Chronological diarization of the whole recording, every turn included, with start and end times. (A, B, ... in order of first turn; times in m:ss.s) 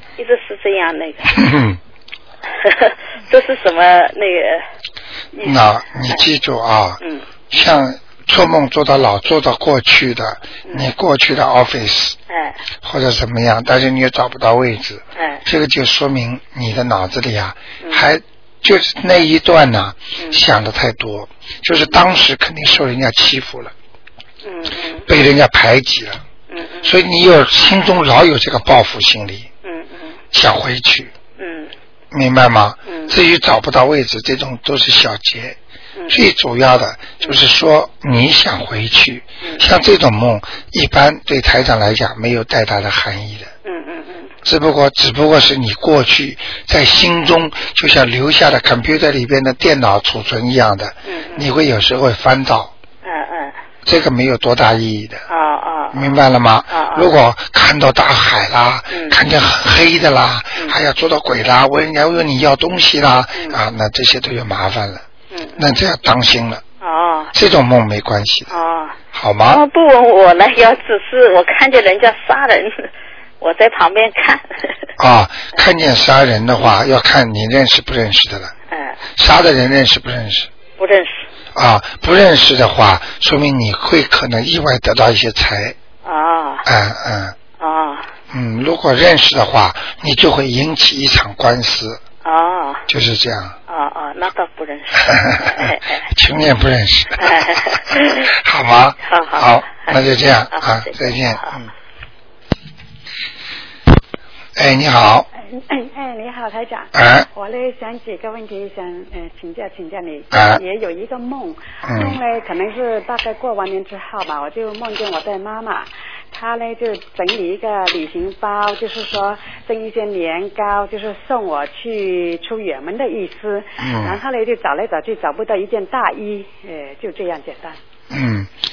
0:00.2-0:01.4 A
0:01.3-0:01.8 B
0:02.5-0:04.6 A
0:05.4-0:07.0 B
0:07.5-0:12.2 B
0:12.3-0:12.6 A
0:12.8-0:23.7 B
0:15.2-0:15.4 A
0:24.4-0:25.1 A
0:25.1-0:26.2 B
0:26.5-0:26.9 A
0:26.8-0:29.5 B
0:29.6-0:30.2 A
0:30.3-0:31.1 B
0:31.4-0:31.7 A
0:32.1-0:35.6 B
0:32.9-0:33.1 A
0:36.1-0:43.5 B
0:43.6-0:44.3 A
0:44.4-0:52.7 B
0:51.1-0:51.5 A
0:53.0-0:53.5 A
0:53.8-0:55.2 B
0:55.3-0:56.2 A
0:55.9-1:05.0 B
0:56.7-0:57.1 A
0:58.9-0:59.2 A
1:05.3-1:05.6 A
1:05.6-1:06.6 B
1:06.8-1:07.3 A
1:07.3-1:08.5 B
1:08.5-1:09.0 A
1:09.1-1:09.6 B
1:09.5-1:12.9 A
1:13.4-1:14.7 A
1:15.0-1:18.5 B
1:18.7-1:19.0 A
1:19.2-1:20.5 B
1:20.8-1:21.3 A
1:21.5-1:25.8 B
1:26.0-1:26.6 A
1:26.6-1:27.4 B
1:27.6-1:28.1 A
1:28.3-1:32.0 B
1:32.2-1:32.8 A
1:32.9-1:33.6 B
1:33.7-1:36.0 A
1:35.0-1:41.7 B
1:37.2-1:38.3 A
1:39.1-1:40.0 A
1:40.5-1:41.5 A
1:44.6-1:45.3 B
1:45.4-2:07.8 C
1:46.9-1:47.3 B
1:50.3-1:50.6 B
1:51.8-1:52.2 B
2:03.8-2:04.2 B
2:08.1-2:08.5 B